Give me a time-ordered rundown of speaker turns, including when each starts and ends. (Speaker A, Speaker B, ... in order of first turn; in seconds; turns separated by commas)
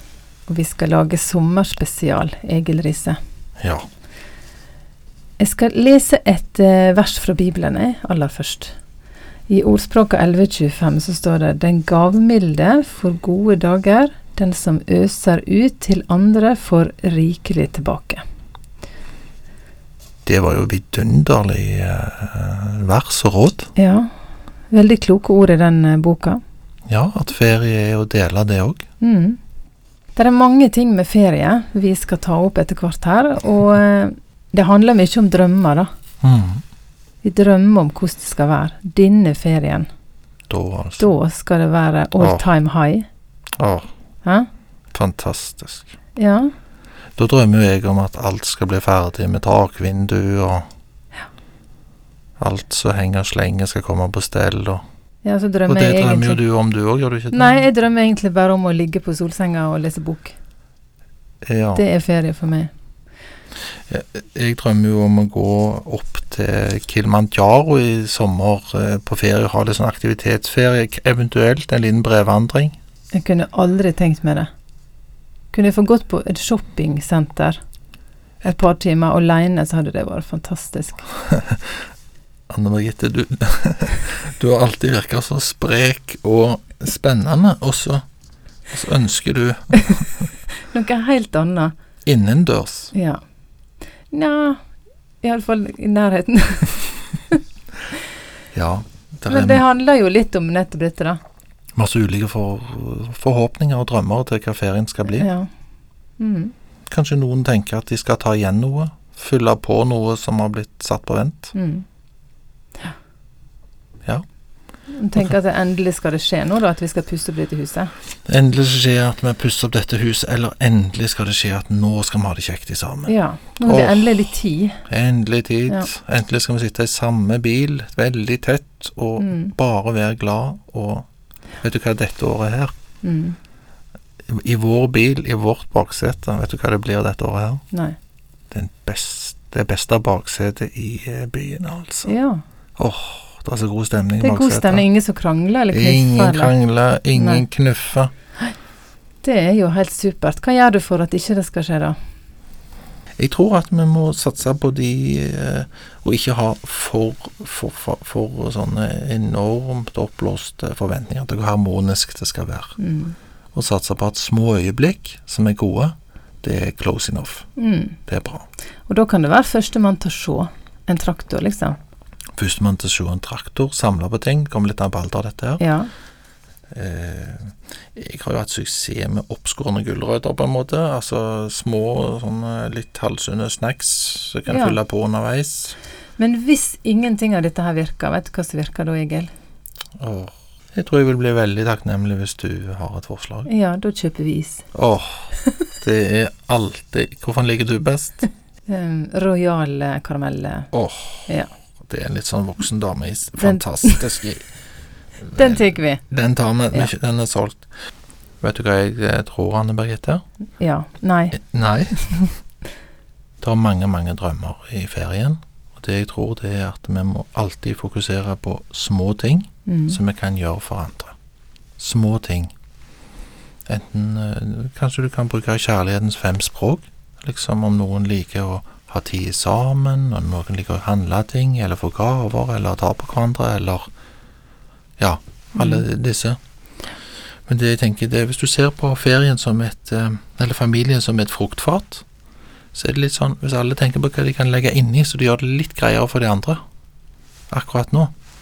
Speaker A: 0.5-3.2, Speaker B: 3.6-3.9, Speaker A: 5.4-8.7, Speaker A: 9.5-18.2, Speaker B: 20.2-23.7, Speaker A: 23.8-24.1, Speaker A: 24.7-26.4, Speaker B: 26.9-28.8, Speaker A: 29.0-29.4, Speaker A: 30.1-35.9, Speaker B: 36.2-36.6, Speaker A: 37.2-39.9, Speaker B: 40.5-41.1, Speaker A: 41.0-43.1, Speaker B: 42.2-42.5, Speaker B: 43.6-43.9, Speaker B: 44.9-46.0, Speaker A: 46.2-46.5, Speaker B: 47.2-50.6, Speaker B: 52.4-54.8, Speaker A: 55.2-56.4, Speaker B: 55.7-57.7, Speaker A: 57.3-60.4, Speaker B: 61.4-61.8, Speaker A: 61.8-62.7, Speaker B: 63.9-72.8, Speaker A: 73.1-74.5, Speaker A: 75.5-77.6, Speaker A: 78.4-81.1, Speaker B: 82.5-88.0, Speaker B: 88.7-90.1, Speaker A: 90.6-91.7, Speaker B: 92.1-92.9, Speaker A: 92.9-93.2, Speaker A: 94.1-94.6, Speaker A: 95.2-97.4, Speaker B: 98.5-99.6, Speaker A: 99.3-101.2, Speaker B: 101.8-105.3, Speaker A: 105.1-105.5, Speaker A: 106.2-106.5, Speaker B: 106.9-111.5, Speaker A: 111.5-111.8, Speaker A: 114.9-117.9, Speaker B: 118.3-124.3, Speaker A: 123.1-124.8, Speaker B: 124.9-131.1, Speaker A: 129.2-129.5, Speaker B: 131.6-132.7, Speaker A: 133.0-133.4, Speaker B: 134.3-137.6, Speaker A: 137.7-138.0, Speaker B: 138.5-142.1, Speaker A: 142.1-142.4, Speaker B: 142.8-144.8, Speaker A: 144.2-146.5, Speaker B: 145.7-148.1, Speaker A: 147.1-147.4, Speaker A: 149.2-152.0, Speaker B: 153.2-162.8, Speaker A: 162.8-163.2, Speaker B: 163.5-167.5, Speaker A: 167.6-168.0, Speaker B: 168.1-168.4, Speaker A: 168.9-171.8, Speaker B: 172.4-175.6, Speaker A: 175.6-175.9, Speaker B: 176.7-185.8, Speaker A: 184.5-184.8, Speaker A: 186.2-189.3, Speaker B: 190.0-193.5, Speaker A: 193.5-194.7, Speaker B: 194.7-198.3, Speaker A: 198.7-200.7, Speaker B: 200.7-201.3, Speaker B: 201.8-204.4, Speaker A: 203.4-204.1, Speaker B: 205.2-207.7, Speaker A: 205.4-206.0, Speaker B: 208.4-210.2, Speaker A: 210.6-211.4, Speaker B: 211.3-212.1, Speaker B: 213.4-221.1, Speaker A: 219.7-220.0, Speaker B: 221.8-222.5, Speaker B: 223.7-233.9, Speaker B: 235.0-236.4, Speaker A: 235.6-235.8, Speaker B: 237.5-242.0, Speaker B: 242.7-246.6, Speaker B: 247.5-248.1